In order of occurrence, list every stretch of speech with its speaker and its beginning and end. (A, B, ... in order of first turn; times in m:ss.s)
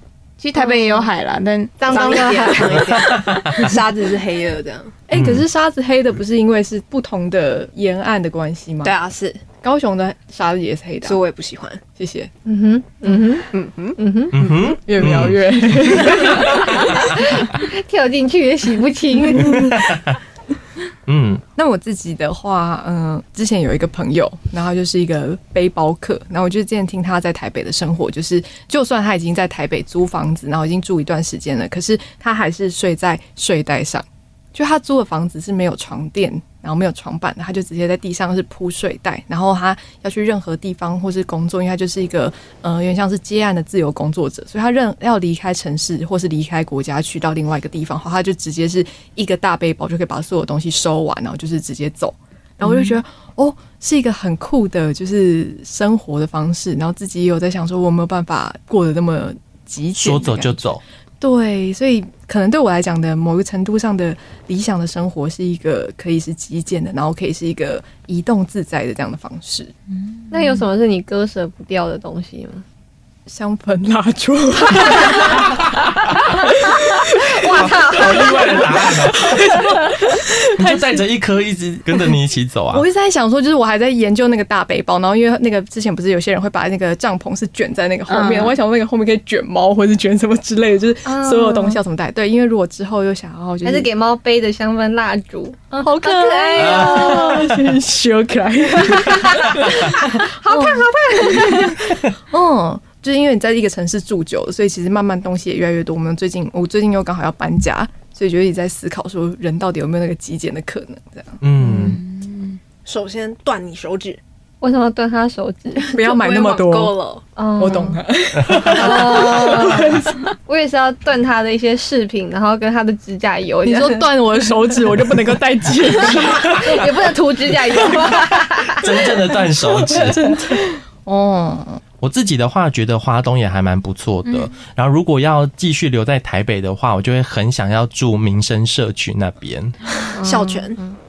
0:00.4-0:02.7 A
0:00.6-0:01.1 B
0:01.8-0:03.1 B
0:01.9-0:05.0 C
0:05.1-0:09.0 D
0:05.1-0:05.4 E
0:08.8-0:09.4 C
0:09.6-0:11.2 D
0:11.0-0:11.8 C
0:12.0-0:12.3 D
0:12.5-0:14.4 B
0:13.5-0:14.6 C
0:14.3-0:16.2 E
0:14.7-0:16.8 D
0:16.8-0:19.8 B
0:16.9-0:17.4 E
0:19.5-0:20.2 E
0:21.1-0:21.4 E
0:21.6-1:00.7 D
1:00.0-1:00.8 E
1:01.2-1:09.7 D
1:10.3-1:12.6 B
1:13.3-1:21.0 D
1:17.3-1:18.6 B
1:17.4-1:19.6 E
1:20.6-1:22.8 E
1:22.7-1:33.9 D
1:28.1-1:28.6 A
1:31.1-1:31.8 B
1:33.6-1:37.5 B
1:35.7-1:52.0 D
1:36.7-1:37.3 E
1:38.8-1:41.8 B
1:51.4-1:52.0 E
1:51.8-1:52.6 A
1:52.8-1:54.2 C
1:54.6-1:55.9 B
1:55.8-1:57.2 C
1:55.9-1:57.0 D
1:57.4-2:04.1 B
1:57.6-2:00.3 D
2:03.6-2:06.7 D
2:05.9-2:08.9 B
2:06.4-2:06.7 E
2:08.7-2:10.4 E
2:09.7-2:11.8 D
2:12.0-2:19.8 E
2:20.1-2:21.0 B
2:20.2-2:20.8 C